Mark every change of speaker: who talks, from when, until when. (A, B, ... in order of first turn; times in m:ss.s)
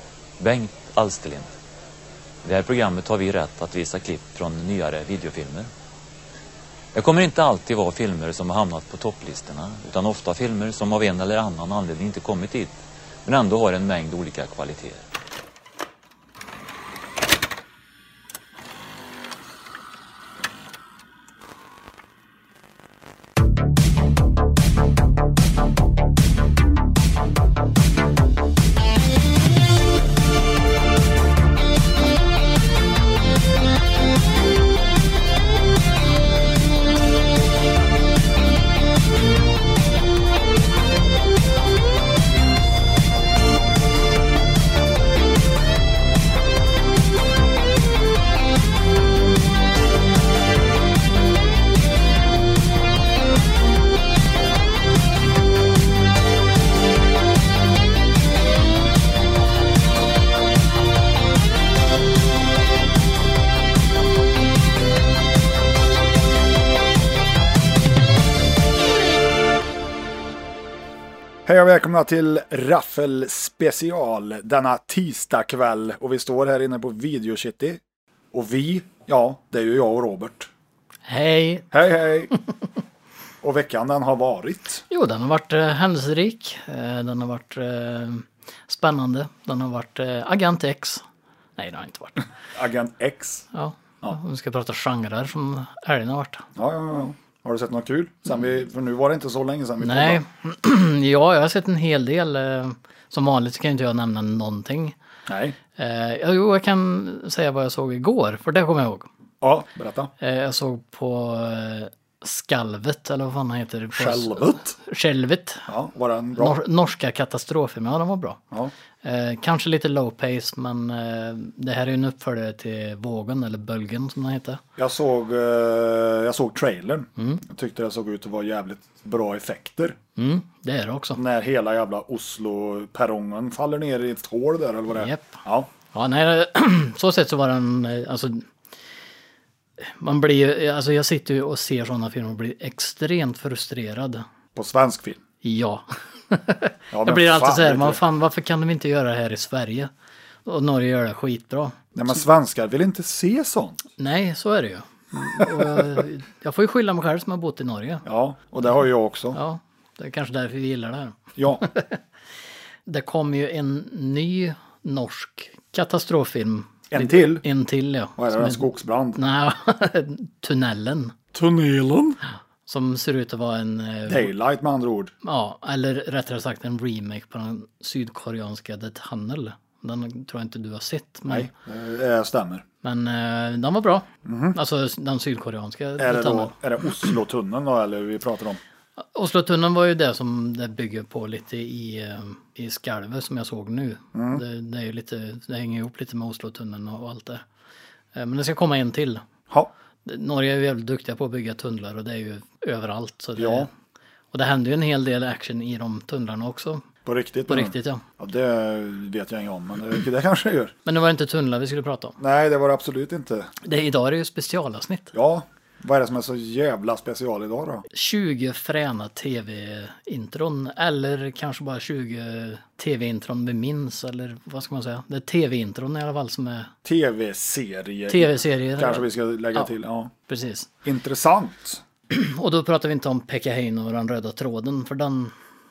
0:00.4-0:01.5 A
0:02.4-0:05.7 A
0:06.9-0:15.0 A
1:11.4-1:17.8 B
1:18.3-1:20.5 B
1:21.1-1:21.7 C
1:21.7-1:22.3 B
1:23.4-1:24.8 B
1:24.9-1:31.0 C
1:31.6-1:32.3 C
1:32.5-1:33.4 B
1:33.5-1:36.4 C
1:36.6-1:40.2 B
1:39.8-1:45.0 C
1:45.3-1:45.6 B
1:45.8-1:49.1 C
1:49.4-1:50.1 B
1:50.2-1:55.7 C
1:53.9-1:54.8 B
1:55.7-1:56.6 B
1:56.4-1:58.4 C
1:59.0-2:04.6 C
2:04.8-2:10.0 B
2:07.2-2:07.4 C
2:10.2-2:11.2 C
2:11.1-2:15.7 B
2:14.9-2:15.4 C
2:15.9-2:18.5 C
2:19.8-2:24.2 C
2:24.5-2:25.2 B
2:25.4-2:29.9 C
2:26.9-2:28.0 B
2:30.4-2:31.8 C
2:31.9-2:33.8 B
2:34.0-2:38.0 C
2:35.2-2:36.0 B
2:38.0-2:39.4 B
2:39.3-2:42.0 C
2:41.4-2:41.6 B
2:42.8-2:51.1 C
2:46.9-2:47.4 B
2:48.2-2:49.2 B
2:51.3-2:52.2 B
2:52.6-2:54.3 C
2:54.1-2:55.1 B
2:55.2-3:01.5 C
3:01.3-3:02.6 B
3:02.8-3:06.5 C
3:04.2-3:04.6 B
3:06.0-3:08.6 B
3:09.0-3:17.4 C
3:14.1-3:14.4 B
3:18.1-3:19.2 C
3:20.0-3:23.7 C
3:23.4-3:23.7 B
3:24.3-3:26.9 C
3:27.0-3:30.7 B
3:27.5-3:28.0 C
3:30.8-3:32.2 C
3:32.2-3:33.5 B
3:33.6-3:35.1 C
3:35.1-3:37.8 B
3:37.9-3:46.7 C
3:46.8-3:50.1 B
3:48.1-3:49.7 C
3:50.3-3:50.7 C
3:50.8-3:51.8 B
3:52.1-3:55.3 C